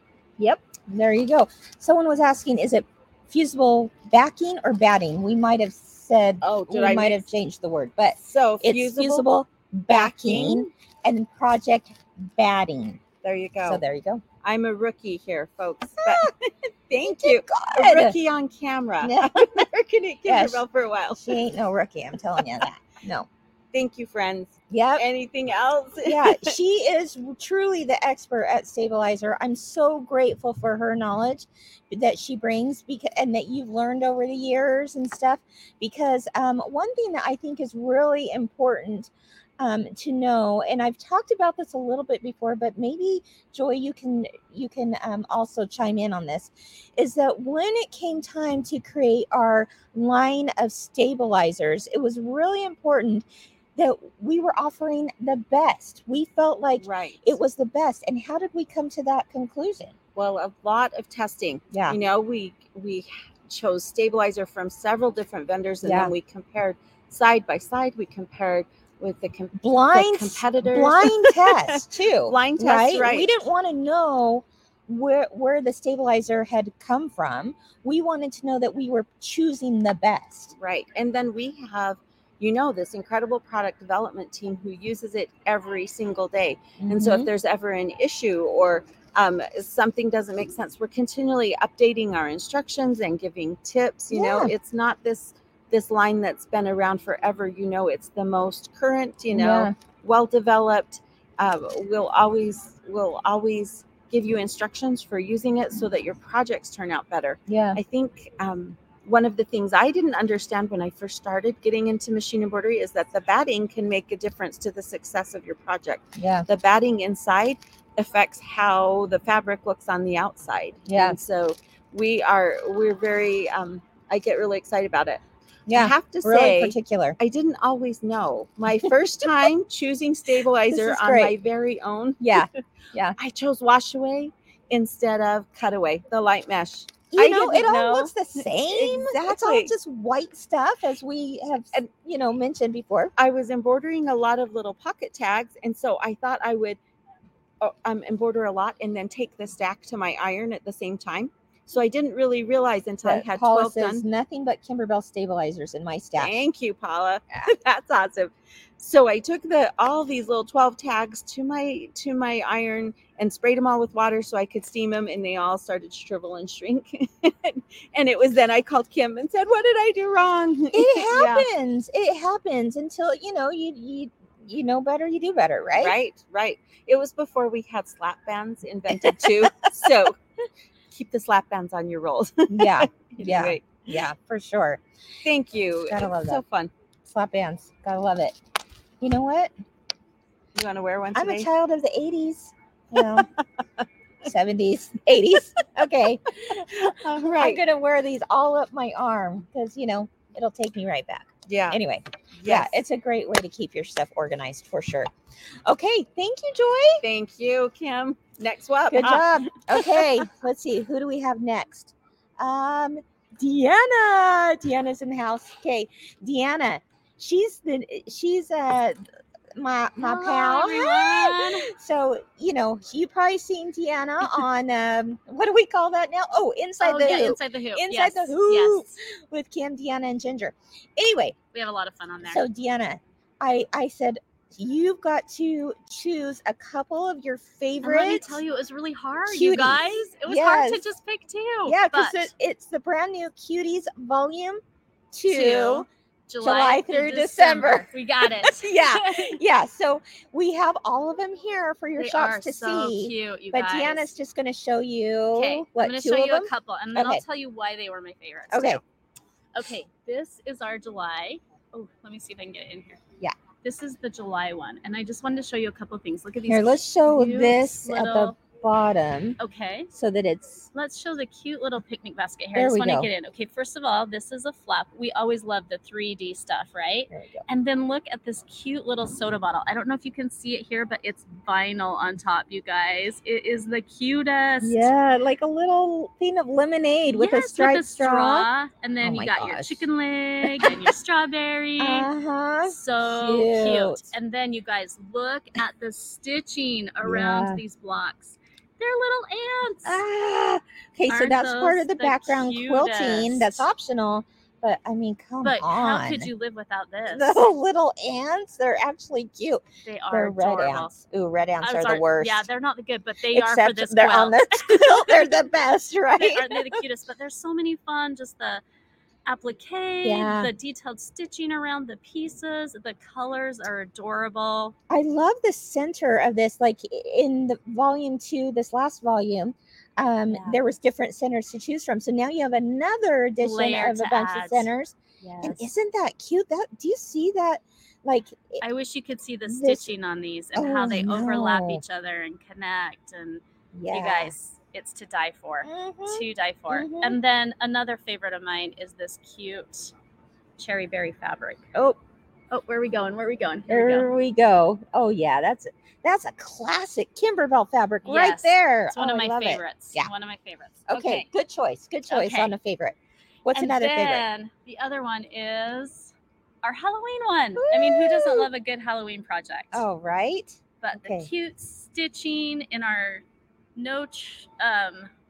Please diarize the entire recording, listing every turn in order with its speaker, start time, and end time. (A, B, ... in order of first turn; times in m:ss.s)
0:00.4-0:13.0 A
0:06.4-0:07.3 B
0:08.2-0:09.3 B
0:09.9-0:10.7 B
0:13.2-0:13.8 B
0:13.6-0:14.2 A
0:14.4-0:16.3 B
0:16.0-0:16.3 A
0:16.9-0:19.6 B
0:17.0-0:18.2 A
0:19.0-0:20.6 A
0:20.2-0:21.4 B
0:21.2-0:23.3 A
0:23.7-0:26.5 B
0:24.7-0:25.1 A
0:26.0-0:59.9 A
0:56.8-0:57.2 B
1:00.1-1:11.5 B
1:01.7-1:02.0 A
1:05.8-1:06.1 A
1:09.5-1:20.5 A
1:12.3-1:13.3 B
1:20.6-2:12.5 B
1:26.8-1:27.3 A
1:34.1-1:34.5 A
1:39.3-1:39.7 A
1:47.5-1:47.8 A
1:56.2-1:56.5 A
2:00.9-2:01.2 A
2:05.7-2:07.2 A
2:10.7-2:11.4 A
2:12.2-2:13.2 A
2:13.2-2:19.7 B
2:17.1-2:23.1 A
2:23.2-2:26.8 B
2:27.6-2:34.0 B
2:33.0-2:36.4 A
2:36.2-2:51.4 B
2:50.7-2:56.0 A
2:55.8-3:00.1 B
2:58.9-2:59.6 A
3:00.9-3:03.6 B
3:02.5-3:04.8 A
3:05.2-3:06.7 B
3:05.9-3:06.4 A
3:07.0-3:08.4 A
3:09.0-3:09.5 A
3:10.5-3:11.5 B
3:11.1-3:13.3 A
3:14.2-3:25.1 A
3:16.8-3:17.6 B
3:21.5-3:21.8 B
3:22.4-3:22.8 B
3:25.6-3:27.0 A
3:27.0-3:29.4 B
3:28.9-3:39.0 A
3:39.5-3:51.4 A
3:40.0-3:41.7 C
3:46.8-3:49.0 C
3:51.5-3:52.4 C
3:52.2-3:58.4 A
3:57.8-4:02.3 C
3:59.3-4:00.8 A
4:01.6-4:04.6 A
4:05.1-4:05.9 A
4:05.3-4:09.3 C
4:06.4-4:17.2 A
4:12.0-4:14.1 C
4:15.3-4:18.8 C
4:18.5-4:18.8 A
4:19.5-4:23.0 C
4:23.6-4:28.4 C
4:26.5-4:29.4 A
4:29.4-4:29.9 C
4:29.9-4:30.7 A
4:30.7-4:44.9 C
4:32.5-4:33.1 A
4:37.1-4:37.4 A
4:44.6-4:48.5 A
4:47.1-4:52.1 C
4:49.0-4:49.8 A
4:50.4-4:50.9 A
4:51.8-4:54.1 A
4:52.6-5:00.0 C
4:57.0-4:57.6 A
4:59.8-5:06.3 A
5:01.1-5:03.7 C
5:05.4-5:07.4 C
5:07.1-5:12.5 A
5:09.8-5:10.9 C
5:11.6-5:15.3 C
5:13.3-5:16.8 A
5:16.2-5:18.6 C
5:19.2-5:24.7 C
5:20.0-5:20.5 A
5:24.9-5:38.6 A
5:30.3-5:30.6 C
5:33.4-5:34.7 C
5:35.2-5:35.6 C
5:38.6-5:49.9 C
5:39.4-5:39.9 A
5:40.5-5:41.8 A
5:43.7-5:44.3 A
5:45.6-5:47.2 A
5:50.6-5:51.6 C
5:51.7-5:52.0 A
5:52.5-5:54.1 C
5:53.7-6:00.1 A
5:58.0-6:01.3 C
6:00.9-6:04.2 A
6:02.1-6:02.5 C
6:03.5-6:09.8 C
6:07.6-6:08.5 A
6:09.7-6:11.3 A
6:10.8-6:13.2 C
6:13.8-6:15.1 C